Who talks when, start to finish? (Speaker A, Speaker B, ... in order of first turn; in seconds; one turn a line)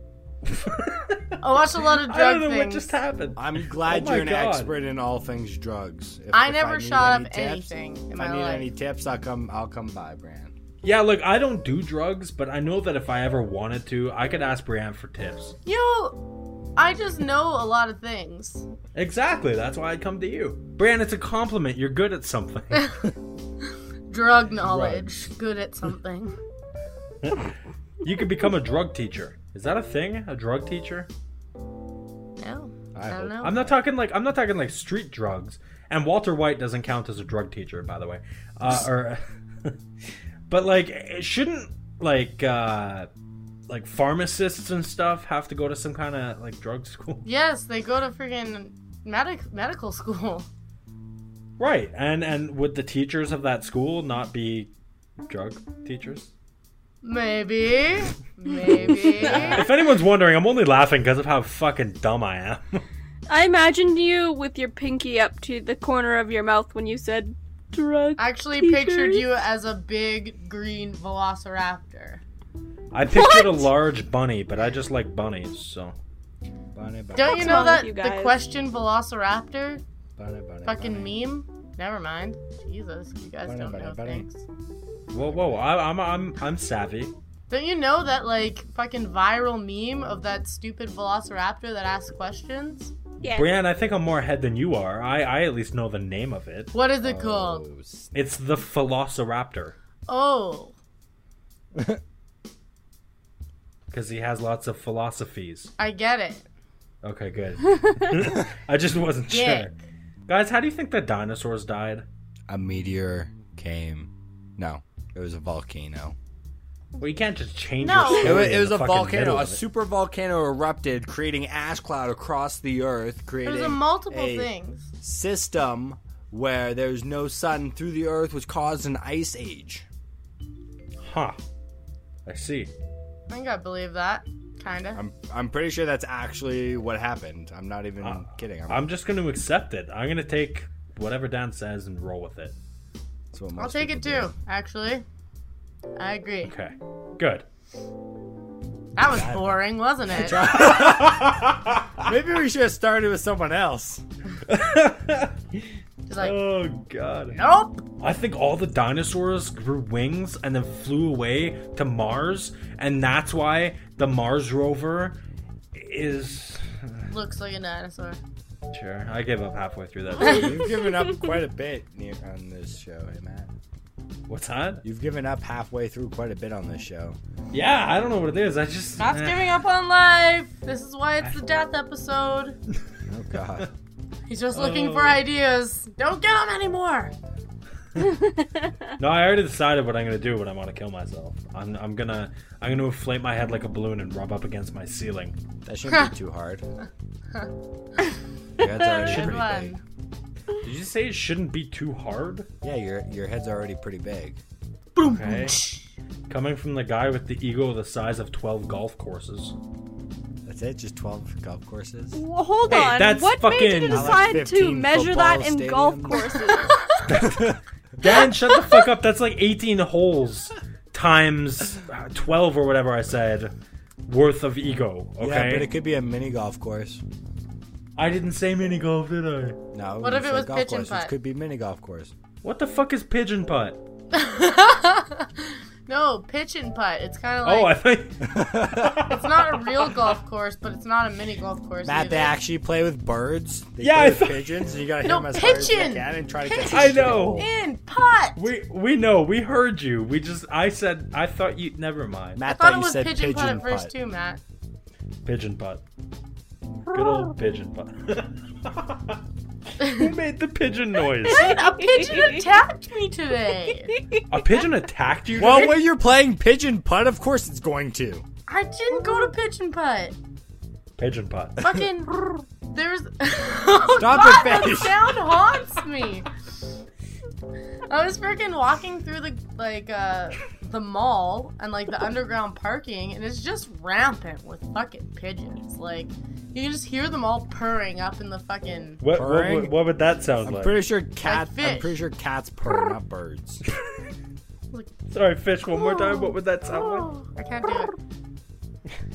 Speaker A: 0.5-4.7
Speaker B: 1.4-2.9
Speaker C: 3.4-10.5
Speaker B: 6.3-8.7
Speaker A: 10.8-15.6
Speaker B: 15.6-16.2
Speaker B: 16.8-18.6
Speaker A: 18.9-23.0
Speaker B: 24.1-26.4
Speaker A: 24.7-25.1
Speaker A: 27.2-27.5
Speaker A: 28.0-31.1
Speaker B: 32.4-33.6
Speaker C: 32.9-33.7
Speaker A: 33.4-39.8
Speaker A: 40.5-43.1
Speaker A: 43.7-47.2
Speaker B: 47.2-50.5
Speaker A: 51.6-54.7
Speaker A: 55.2-56.3
Speaker B: 57.0-59.6
Speaker D: 58.7-59.5
Speaker A: 59.2-62.8
Speaker D: 63.3-69.2
Speaker B: 68.2-72.2
Speaker A: 72.9-75.9
Speaker D: 73.1-73.7
Speaker C: 76.7-77.8
Speaker B: 77.1-79.8
Speaker D: 77.2-78.4
Speaker C: 80.2-81.2
Speaker B: 80.6-84.4
Speaker C: 83.4-84.3
Speaker A: 85.1-87.1
Speaker C: 85.2-85.6
Speaker B: 87.5-92.9
Speaker D: 93.2-93.6
Speaker A: 93.2-96.7
Speaker B: 96.7-97.6
Speaker C: 97.0-98.1
Speaker A: 98.1-99.8
Speaker B: 100.1-100.7
Speaker C: 101.7-102.0
Speaker A: 103.9-105.7
Speaker B: 105.8-106.4
Speaker A: 107.0-109.7
Speaker B: 109.3-109.8
Speaker A: 110.3-112.0
Speaker C: 112.5-116.2
Speaker A: 117.0-119.6
Speaker B: 117.8-118.5
Speaker C: 118.1-129.8
Speaker B: 123.4-124.9
Speaker A: 131.0-131.4
Speaker A: 132.2-132.7
Speaker B: 133.3-135.0
Speaker C: 134.9-138.9
Speaker A: 138.0-142.6
Speaker C: 143.3-144.3
Speaker B: 143.6-145.0
Speaker B: 146.0-146.5
Speaker A: 146.4-147.4
Speaker B: 148.9-150.6
Speaker C: 149.0-151.4
Speaker A: 150.4-152.1
Speaker C: 152.0-154.0
Speaker A: 154.5-157.4
Speaker B: 156.1-156.4
Speaker B: 157.3-157.8
Speaker A: 158.0-165.2
Speaker A: 165.7-167.0
Speaker B: 167.1-168.2
Speaker A: 168.7-170.6
Speaker B: 170.2-170.6
Speaker C: 170.2-173.5
Speaker A: 174.3-174.8
Speaker C: 174.8-177.2
Speaker A: 177.5-179.6
Speaker B: 179.0-182.6
Speaker C: 183.1-183.7
Speaker B: 184.3-187.1
Speaker A: 184.5-185.2
Speaker A: 189.0-195.4
Speaker C: 195.6-196.6
Speaker C: 198.6-199.8
Speaker B: 198.9-199.8
Speaker A: 199.0-199.4
Speaker A: 200.6-202.5
Speaker C: 202.6-204.4
Speaker B: 204.9-205.8
Speaker A: 205.0-205.6
Speaker A: 206.3-209.5
Speaker C: 210.4-212.2
Speaker D: 212.1-216.8
Speaker A: 212.7-214.3
Speaker C: 213.8-216.4
Speaker B: 216.6-216.9
Speaker A: 217.1-217.4
Speaker C: 217.1-217.6
Speaker A: 218.0-223.5
Speaker A: 224.1-225.7
Speaker C: 225.2-227.0
Speaker A: 228.0-229.6
Speaker C: 229.7-232.1
Speaker B: 230.0-231.1
Speaker A: 232.4-233.8
Speaker B: 234.1-237.7
Speaker A: 237.4-239.9
Speaker C: 238.2-239.1
Speaker B: 239.2-242.3
Speaker C: 241.8-247.5
Speaker A: 243.8-244.7
Speaker B: 245.0-248.5
Speaker A: 246.7-247.4
Speaker A: 248.3-252.4
Speaker C: 252.3-253.9
Speaker B: 252.5-254.4
Speaker A: 255.2-255.8
Speaker A: 256.9-259.2
Speaker A: 259.8-261.6
Speaker B: 261.2-263.9
Speaker D: 261.3-262.5
Speaker D: 263.9-264.2
Speaker A: 264.3-265.8
Speaker C: 265.3-268.2
Speaker B: 268.5-270.1
Speaker D: 268.9-269.3
Speaker A: 271.0-271.6
Speaker B: 271.6-276.2
Speaker C: 273.9-275.2
Speaker B: 277.9-289.0
Speaker A: 289.0-290.9
Speaker C: 289.1-289.8
Speaker C: 290.4-293.6
Speaker B: 291.2-292.0
Speaker A: 295.1-297.2
Speaker B: 297.3-297.9